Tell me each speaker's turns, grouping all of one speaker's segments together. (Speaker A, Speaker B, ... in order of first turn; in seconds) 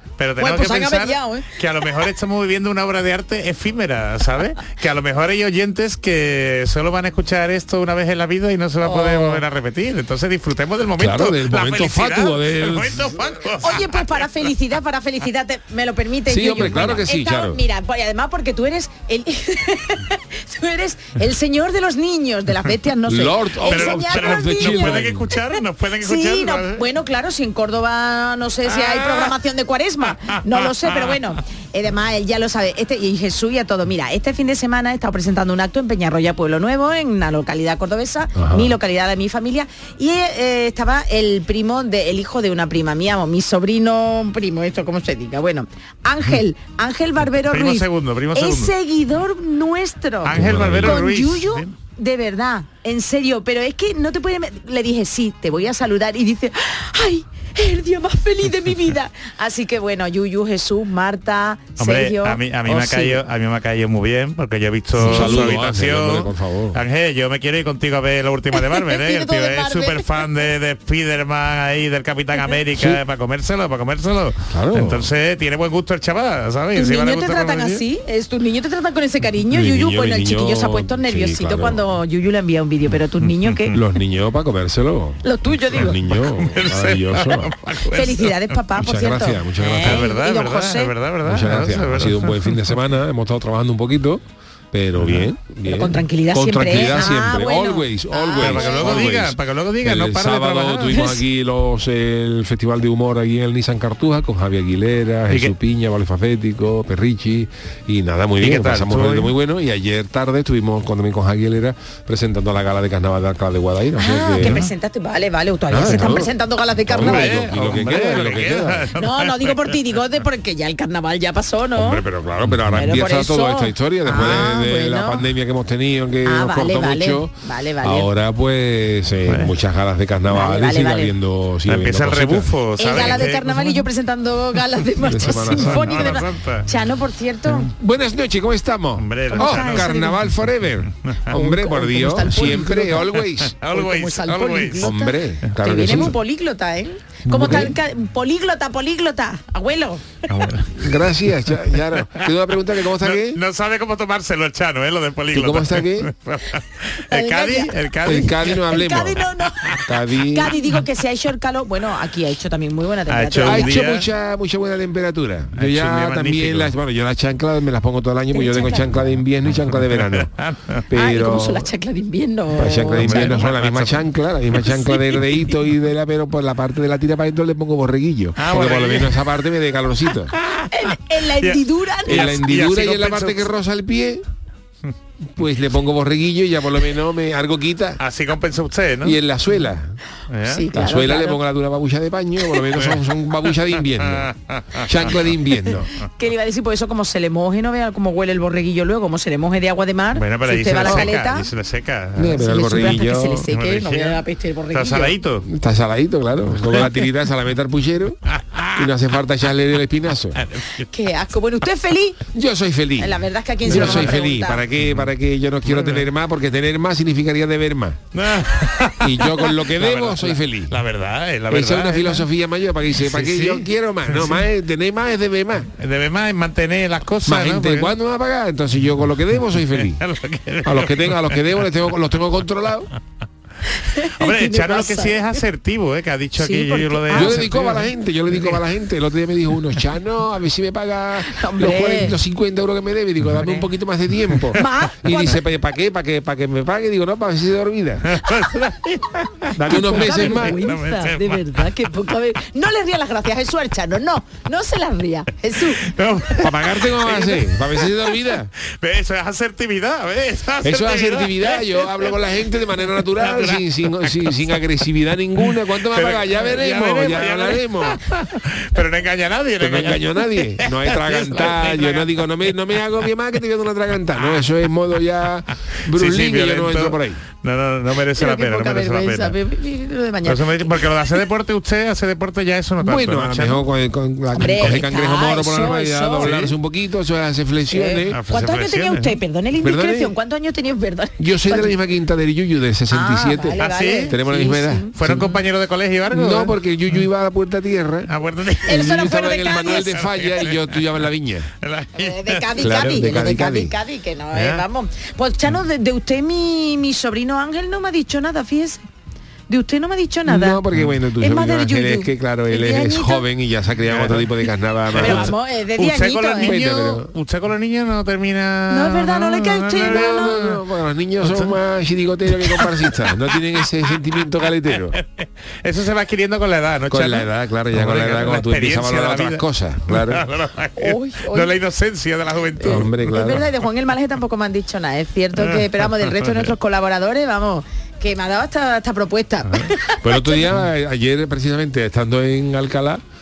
Speaker A: 0.2-14.3, 23.7-26.9, 28.7-29.4, 30.6-31.3, 47.5-48.7, 50.2-51.7, 61.8-77.8, 83.2-83.8, 86.2-88.6, 89.8-92.6, 95.0-95.3, 98.4-101.1, 108.4-109.3, 114.4-114.7, 115.9-116.1, 117.0-119.8, 124.2-124.4, 129.3-129.5, 131.7-133.9, 135.3-136.7, 139.0-139.9, 143.2-145.0, 150.3-151.0, 151.9-152.3, 152.9-158.8, 163.1-164.1, 165.6-166.7, 169.8-170.8, 172.9-174.0, 178.4-179.2, 180.3-183.5, 188.0-189.2, 190.3-190.7, 192.7-195.0, 200.2-203.0, 203.5-204.2, 204.7-205.5, 206.7-207.1, 208.3-208.8, 210.3-210.9, 213.7-214.1, 215.7-216.1, 218.1-222.3, 223.1-224.4, 225.8-227.9, 229.6-231.7, 234.2-238.6, 248.1-251.9, 255.8-264.6, 265.4-272.6, 275.9-279.4, 280.2-283.6, 286.2-286.6, 288.1-289.2, 293.6-294.2, 294.9-297.1, 298.1-300.8, 301.6-303.2, 304.3-304.6, 313.9-314.3, 314.9-320.6, 321.2-321.6, 322.4-333.5, 335.4-336.5
Speaker B: 0.4-1.6, 8.8-9.4, 13.6-63.2, 65.0-65.6, 68.5-70.3, 72.4-72.7, 76.7-83.8, 85.2-86.0, 87.9-90.9, 95.7-99.1, 114.0-117.4, 119.0-122.0, 122.7-125.3, 126.2-128.1, 130.3-131.1, 132.8-137.7, 139.3-140.2, 141.3-143.1, 143.7-150.2, 157.1-157.8, 158.5-163.8, 168.3-169.0, 170.9-173.5, 174.6-175.2, 180.7-182.4, 190.5-191.4, 196.0-201.5, 202.3-205.2, 210.8-212.2, 213.0-214.6, 233.7-235.4, 236.4-237.6, 241.2-242.2, 244.5-245.4, 249.7-255.9, 278.1-281.1, 284.3-286.3, 287.7-291.7, 292.9-295.3, 298.6-300.0, 302.0-308.8, 309.5-310.6, 311.2-313.2, 314.9-316.6, 318.7-320.4, 330.8-331.6, 332.6-340.5
Speaker C: 11.0-13.1, 16.3-17.6, 23.1-25.3, 38.4-38.8, 50.3-51.0, 65.0-66.8, 74.5-75.1, 79.5-81.8, 83.7-87.6, 88.8-90.1, 91.2-114.7, 115.7-116.3, 116.8-118.9, 121.8-133.2, 135.0-136.2, 137.7-143.6, 144.8-146.2, 147.3-147.8, 150.5-153.4, 155.3-156.1, 158.0-159.2, 159.8-160.6, 163.4-170.3, 170.9-171.7, 172.5-180.3, 182.1-184.2, 185.3-188.0, 189.0-190.0, 190.7-195.9, 200.8-201.1, 202.2-203.5, 205.5-208.2, 208.8-210.4, 212.3-218.0, 219.0-220.8, 221.5-225.7, 227.2-230.0, 230.6-232.9, 237.1-248.2, 249.6-250.7, 256.4-258.5, 260.6-268.0, 269.6-277.2, 282.8-288.2, 289.6-290.1, 291.2-295.3, 296.1-298.1, 298.6-301.5, 302.6-303.8, 310.3-315.3, 316.4-317.1, 319.8-325.0, 326.9-330.2, 332.6-333.5, 340.0-343.0